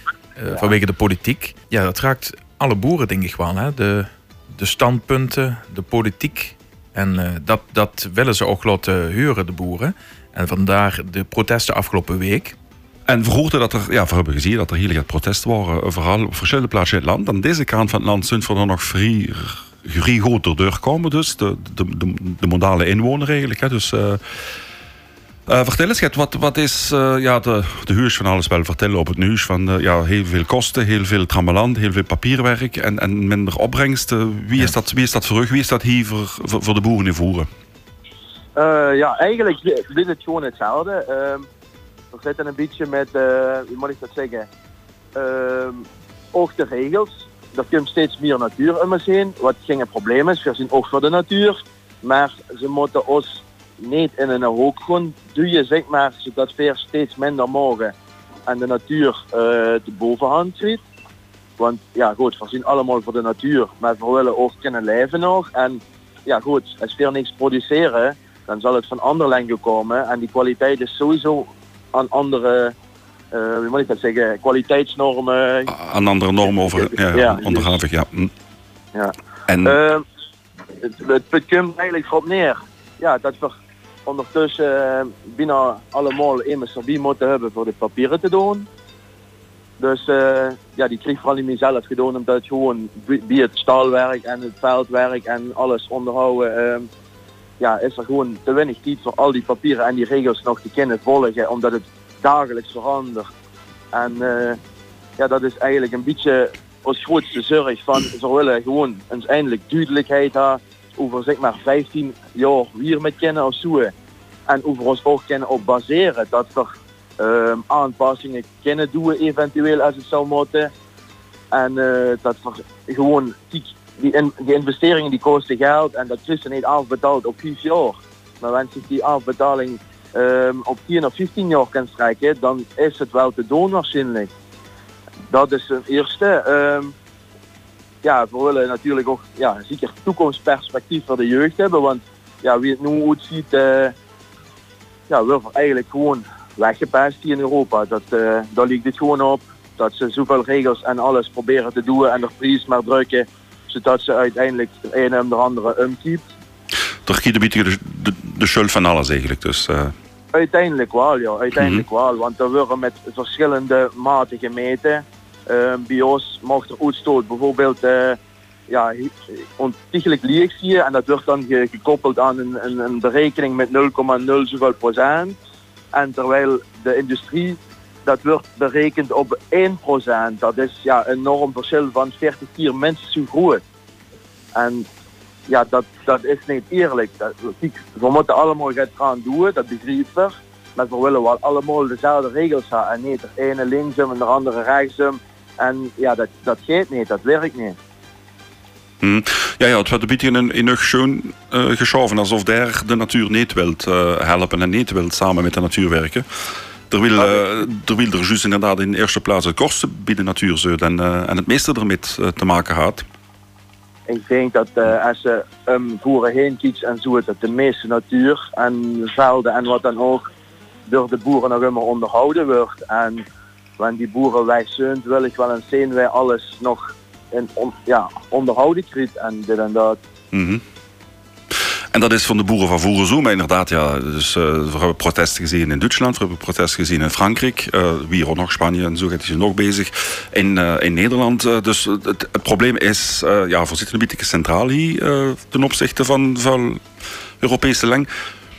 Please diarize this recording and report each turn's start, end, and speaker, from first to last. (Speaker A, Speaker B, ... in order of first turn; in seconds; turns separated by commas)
Speaker A: 0.4-12.6, Speaker B: 13.1-24.2, Speaker B: 25.5-37.5, Speaker C: 38.6-41.5, Speaker C: 42.1-44.5, Speaker C: 45.1-57.9, Speaker C: 58.5-60.8, Speaker C: 61.6-72.7, Speaker C: 73.3-75.7, Speaker B: 75.7-78.3, Speaker C: 76.7-77.8, Speaker C: 78.9-80.0, Speaker B: 79.5-79.8, Speaker C: 80.8-88.7, Speaker C: 89.8-96.9, Speaker C: 97.6-103.3, Speaker C: 103.9-104.6, Speaker C: 105.2-113.9, Speaker C: 114.5-120.7, Speaker C: 121.5-134.3, Speaker C: 135.3-136.9, Speaker C: 138.0-143.9, Speaker C: 145.1-156.3, Speaker B: 157.1-159.9, Speaker C: 160.3-168.2, Speaker B: 161.5-161.8, Speaker C: 168.7-175.4, Speaker C: 175.9-183.6, Speaker C: 184.5-184.9, Speaker C: 185.5-197.8, Speaker B: 199.0-206.2, Speaker B: 206.9-213.0, Speaker C: 214.1-220.3, Speaker C: 220.9-223.2, Speaker C: 223.8-230.0, Speaker B: 230.3-230.6, Speaker B: 231.9-246.8, Speaker B: 247.4-248.1